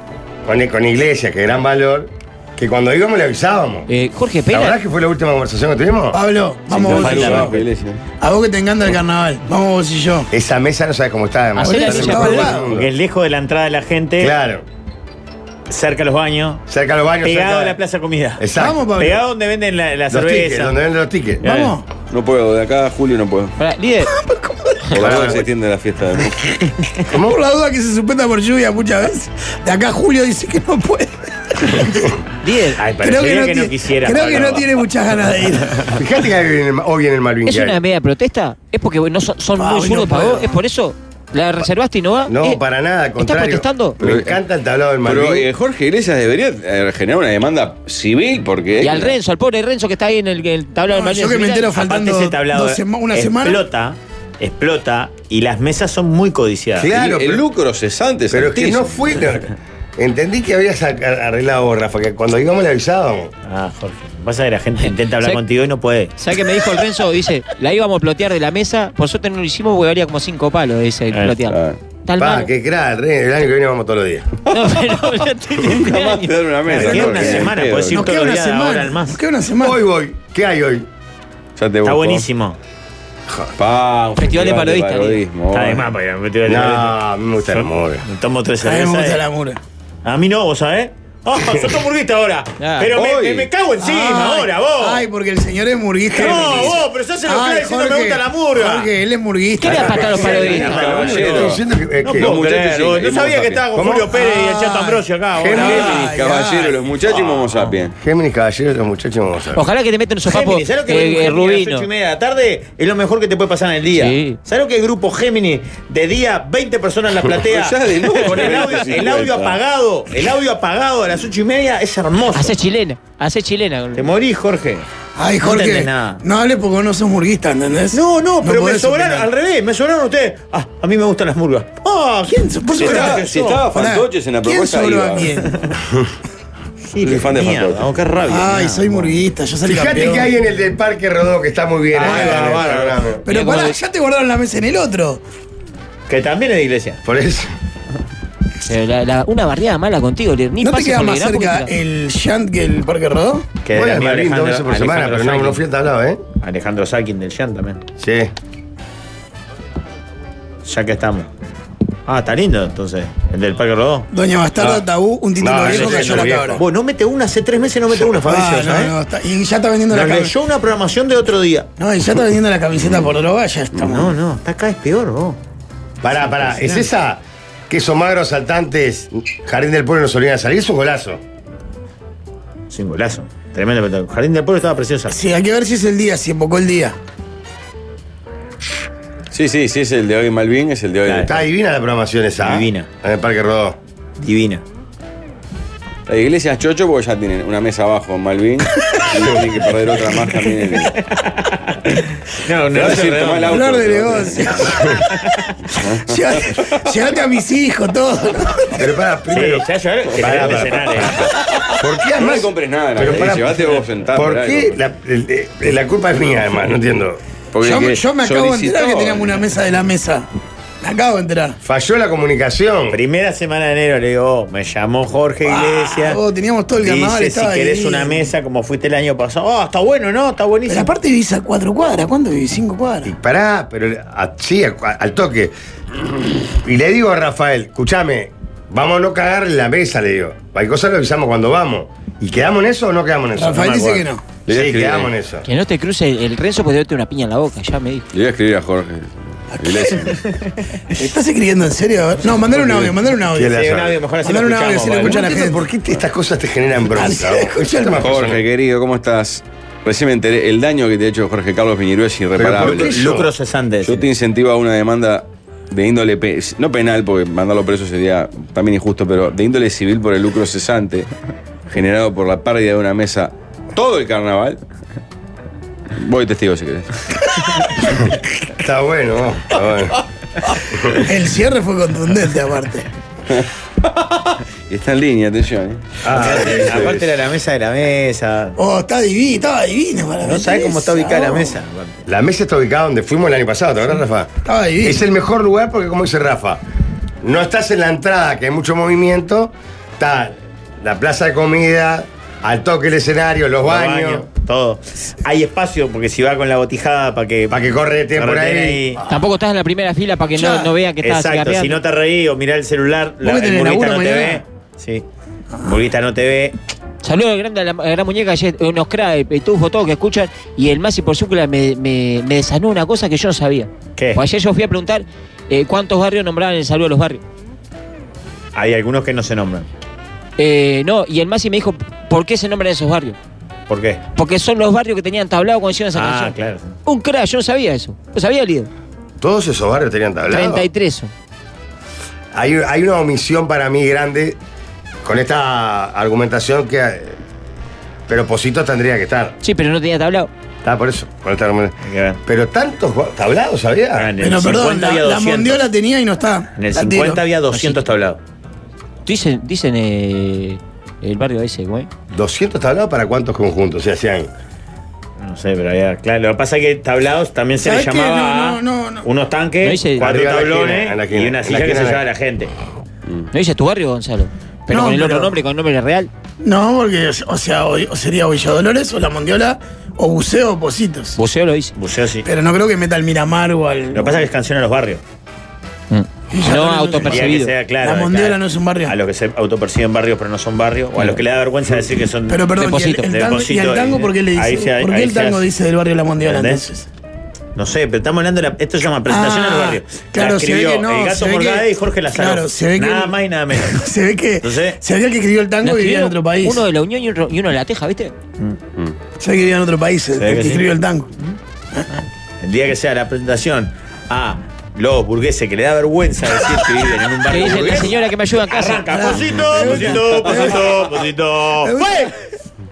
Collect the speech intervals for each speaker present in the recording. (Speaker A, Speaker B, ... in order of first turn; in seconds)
Speaker A: 0.5-3.9, 4.5-6.2, 7.0-7.5, 10.3-12.9, 14.2-14.6, 16.7-17.8, 18.4-19.0, 20.1-21.4, 25.0-25.4, 27.1-27.4, 36.0-37.8, 42.3-45.5, 56.8-57.4, 58.3-63.3, 72.2-74.3, 79.6-80.9, 83.3-83.5, 86.4-88.0, 99.7-102.3, 103.7-104.1, 105.4-106.0, 108.0-109.6, 139.6-143.2, 147.0-147.5, 153.7-156.2, 158.0-158.3, 164.6-164.9, 165.4-166.6, 176.0-181.2, 191.2-193.8, 204.7-204.9, 208.8-209.7, 210.2-211.2, 211.8-217.2, 221.6-223.0, 233.0-235.5, 236.5-245.4, 252.5-254.0, 255.0-258.4, 262.4-263.3, 278.5-280.0, 286.0-287.1, 292.1-294.3, 294.8-296.6, 297.2-304.3, 307.5-309.0, 339.2-340.6, 342.3-344.4, 345.0-347.2, 348.1-349.4, 350.6-351.7, 352.2-354.1, 362.1-364.3, 370.0-372.0
Speaker B: 3.9-4.8, 11.6-12.5, 23.6-24.1, 32.4-32.8, 37.5-42.6, 43.2-44.0, 48.8-51.8, 66.2-72.5, 74.5-77.1, 84.2-85.2, 92.6-92.9, 99.6-101.0, 109.5-111.9, 113.9-114.4, 122.3-124.1, 138.6-138.8, 143.3-143.8, 148.6-151.7, 245.5-248.1, 309.1-311.8, 317.0-327.2, 330.4-333.1, 334.1-338.7, 340.3-341.1, 349.4-350.3, 357.5-357.8, 359.1-361.9, 369.6-370.0, 373.3-376.1, 381.2-381.7, 385.9-387.5, 392.6-393.0, 405.6-408.1, 417.3-419.1
Speaker C: 6.1-7.6, 8.2-10.3, 11.6-12.7, 18.5-19.2, 21.4-21.8, 24.2-24.8, 27.1-32.1, 33.0-36.0, 39.6-40.5, 50.9-53.6, 77.2-79.8, 88.6-89.6, 93.8-100.6, 104.0-106.8, 125.2-129.3, 132.1-133.2, 133.7-135.5, 138.2-140.3, 142.0-142.5, 143.2-145.2, 150.6-153.5, 164.1-166.6, 167.9-170.3, 171.8-174.1, 185.1-186.9, 203.5-205.1, 206.1-208.9, 217.6-220.3, 220.8-221.6, 225.4-228.2, 230.7-233.1, 243.3-244.2, 249.5-250.1, 250.9-253.6, 254.2-255.6, 256.9-258.0, 281.0-282.9, 288.6-291.5, 294.4-295.0, 310.3-310.7, 313.2-314.4, 354.2-357.2, 367.6-369.0, 374.7-375.4, 376.4-381.2, 382.2-384.2, 386.3-388.9, 392.3-396.9, 399.1-406.6, 409.2-411.1, 418.9-420.9, 421.6-422.1
Speaker D: 6.7-8.0, 22.1-23.6, 24.9-26.4, 44.0-44.4, 45.0-49.1, 56.9-59.2, 71.5-71.8, 74.5-75.1, 75.6-78.1, 81.5-82.2, 83.6-85.9, 92.9-93.5, 100.5-101.6, 102.1-103.7, 105.5-107.9, 117.4-119.6, 132.8-135.4, 137.0-138.0, 189.3-191.4, 196.1-200.9, 202.7-204.8, 205.7-206.8, 210.2-211.2, 212.1-214.8, 217.5-219.4, 244.4-245.1, 248.1-250.2, 258.0-262.9, 263.8-271.1, 271.7-274.6, 275.9-277.0, 283.3-284.1, 284.7-285.8, 419.2-420.5
Speaker E: 7.0-7.5, 12.6-14.3, 15.7-16.6, 17.2-18.4, 18.9-20.8, 21.4-21.7, 32.8-34.7, 51.7-56.9, 63.5-66.1, 76.7-79.2, 81.8-82.6, 85.5-89.2, 90.0-95.0, 96.1-98.9, 99.7-106.1, 110.2-122.5, 123.9-124.8, 125.4-126.2, 127.9-132.1, 132.7-133.6, 136.9-139.1, 141.9-143.1, 146.1-147.0, 153.6-155.6, 156.4-157.8, 160.6-161.3, 162.1-164.1, 165.5-168.9, 169.9-171.7, 173.8-175.4, 176.3-176.9, 182.7-185.2, 192.4-192.9, 194.2-194.6, 200.7-203.6, 205.1-205.4, 209.3-211.2, 222.9-226.2, 226.8-230.9, 253.4-255.3, 262.6-264.1, 286.1-288.6, 290.2-292.0, 303.6-307.6, 308.1-309.0, 311.0-315.0, 315.6-316.5, 323.9-324.2, 328.5-329.6, 333.7-334.0, 335.9-336.8, 351.8-352.2, 353.9-355.7, 356.6-358.2, 365.2-372.5, 381.8-382.3, 383.9-385.0, 387.1-395.4, 396.2-396.6, 397.6-403.8, 404.4-404.8, 410.2-410.7, 412.4-422.1